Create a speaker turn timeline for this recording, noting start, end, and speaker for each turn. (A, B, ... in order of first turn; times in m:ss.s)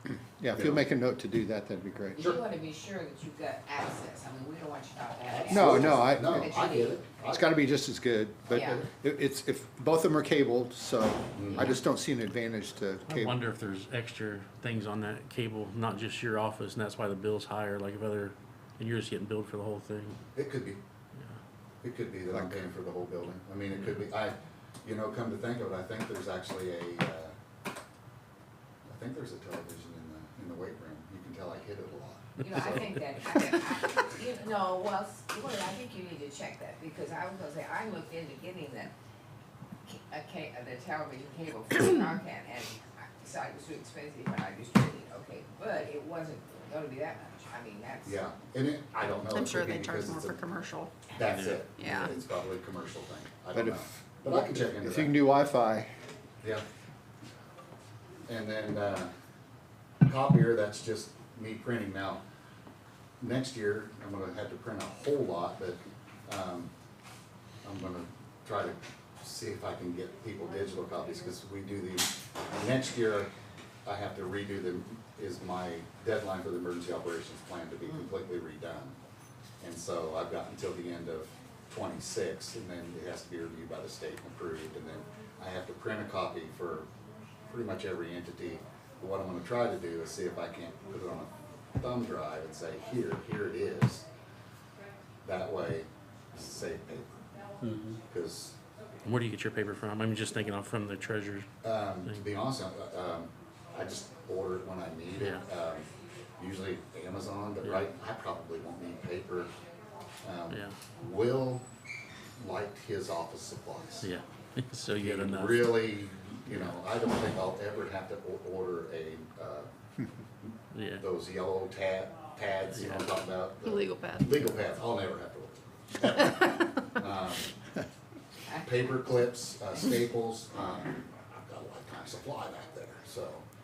0:00.4-0:02.2 A
0:00.5-0:00.8 B
0:02.2-0:02.4 B
0:02.2-0:07.0 C
0:05.3-0:07.6 B
0:05.5-0:06.5 A
0:07.3-0:13.4 A
0:08.5-0:08.8 C
0:11.4-0:11.8 B
0:13.1-0:20.2 D
0:20.4-0:20.8 B
0:21.8-0:27.3 B
0:22.3-0:22.6 A
0:28.9-0:32.8 B
0:32.4-0:38.9 C
0:39.9-0:48.2 C
0:48.0-0:50.4 B
0:49.3-0:51.0 E
0:51.1-0:55.2 B
0:51.2-0:51.7 D
0:51.8-0:52.1 E
0:53.5-0:55.9 A
0:58.3-0:59.1 B
1:00.0-1:02.2 B
1:03.2-1:06.7 B
1:07.6-1:13.3 B
1:13.8-1:19.0 B
1:19.6-1:26.9 B
1:27.5-1:34.1 B
1:35.2-1:37.2 B
1:37.6-1:38.0 D
1:38.1-1:38.6 B
1:39.0-1:41.5 D
1:41.6-1:49.5 B
1:45.2-1:45.4 D
1:50.2-1:51.7 B
1:50.5-1:50.8 D
1:52.4-1:54.1 B
1:54.0-1:55.9 D
1:55.0-1:59.7 B
2:00.7-2:01.0 D
2:01.0-2:07.5 B
2:02.7-2:03.1 D
2:03.6-2:04.3 E
2:08.6-2:13.4 B